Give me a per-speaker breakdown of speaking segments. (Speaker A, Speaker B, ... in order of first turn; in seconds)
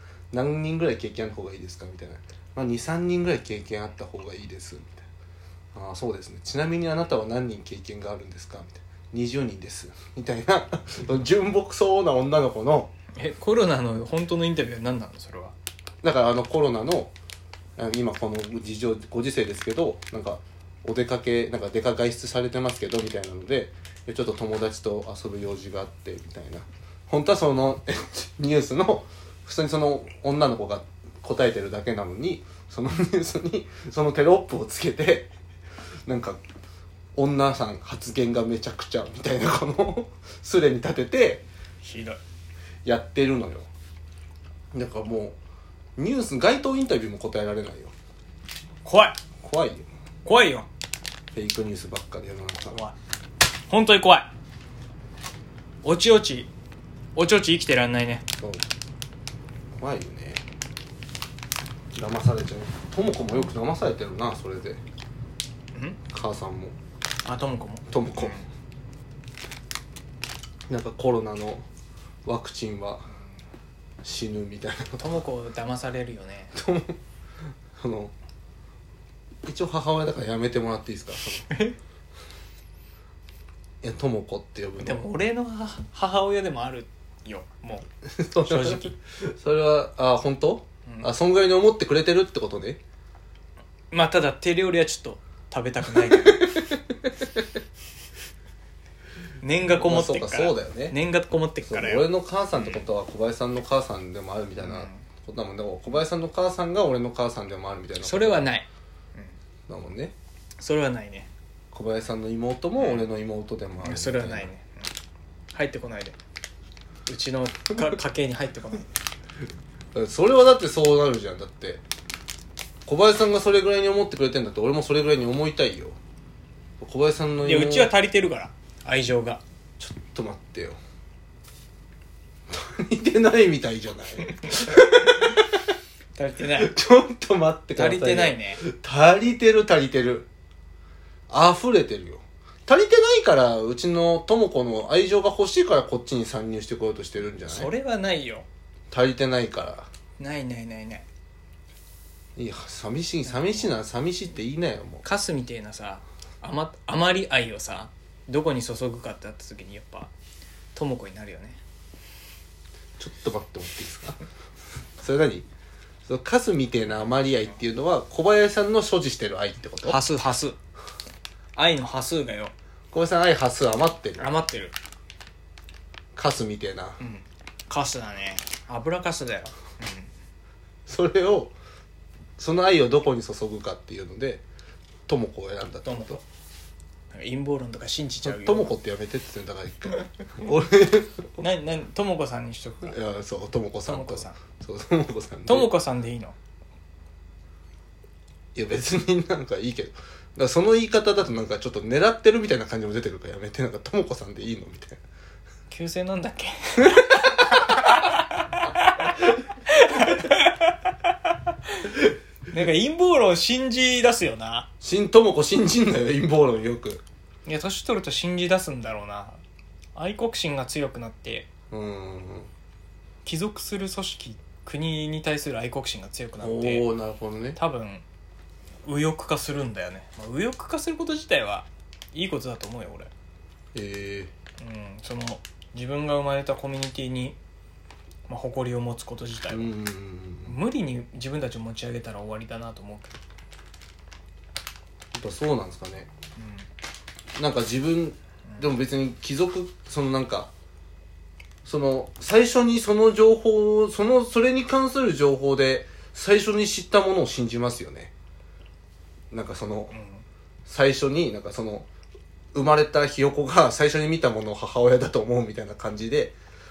Speaker A: 0.3-5.0, 5.7-12.9, 16.0-17.1, 17.8-35.3, 36.1-36.4, 37.1-41.4, 42.8-43.7, 44.7-45.4, 46.0-47.9, 49.4-49.9, 51.3-52.8, 58.4-58.6, 59.7-60.4, 61.9-64.8, 66.1-66.8, 67.9-68.4, 70.7-71.6, 72.2-73.0, 74.0-75.2, 76.5-77.0, 77.8-78.1, 79.4-81.6, 83.8-85.0, 88.0-92.8, 96.1-97.2, 99.7-101.0, 101.6-108.5, 109.7-110.1, 111.7-114.5, 119.9-121.8, 122.8-126.0, 126.8-127.9, 129.8-130.8, 132.5-135.5, 136.6-140.3, 141.3-147.7, 148.9-149.9, 152.3-155.0, 163.0-164.2, 165.0-165.5, 166.1-170.0, 172.9-174.3, 176.2-177.0, 180.9-181.5, 182.4-184.4, 185.1-186.2, 188.2-191.3, 192.8-195.7, 198.5-205.0, 214.8-217.0, 221.7-222.5, 226.4-227.6, 233.7-234.3, 239.5-240.6, 245.1-246.1, 247.3-250.5, 251.6-258.1, 259.3-260.0, 260.6-261.9, 262.5-266.3
Speaker B: 13.1-15.5, 41.8-42.2, 48.8-49.2, 50.2-50.7, 52.7-52.9, 53.7-54.3, 55.8-56.5, 57.1-58.2, 65.7-66.0, 67.2-68.4, 75.0-76.5, 81.4-81.7, 84.8-87.9, 88.4-88.9, 93.9-96.6, 99.4-102.8, 104.6-105.0, 108.0-109.3, 110.6-111.3, 112.8-113.0, 113.8-114.9, 115.5-116.2, 117.0-119.0, 127.4-129.4, 136.1-136.7, 137.8-138.6, 147.4-148.5, 150.2-151.1, 155.0-160.1, 160.7-161.6, 169.8-170.6, 171.5-172.5, 174.2-174.7, 177.0-180.1, 185.8-186.2, 187.1-188.7, 191.4-193.0, 193.8-194.4, 195.4-196.3, 205.7-214.7, 217.4-219.4, 219.9-221.5, 223.2-226.9, 227.6-228.0, 228.8-233.1, 234.6-237.4, 238.3-239.7, 240.4-243.2, 246.4-246.6, 248.5-248.8, 259.9-260.2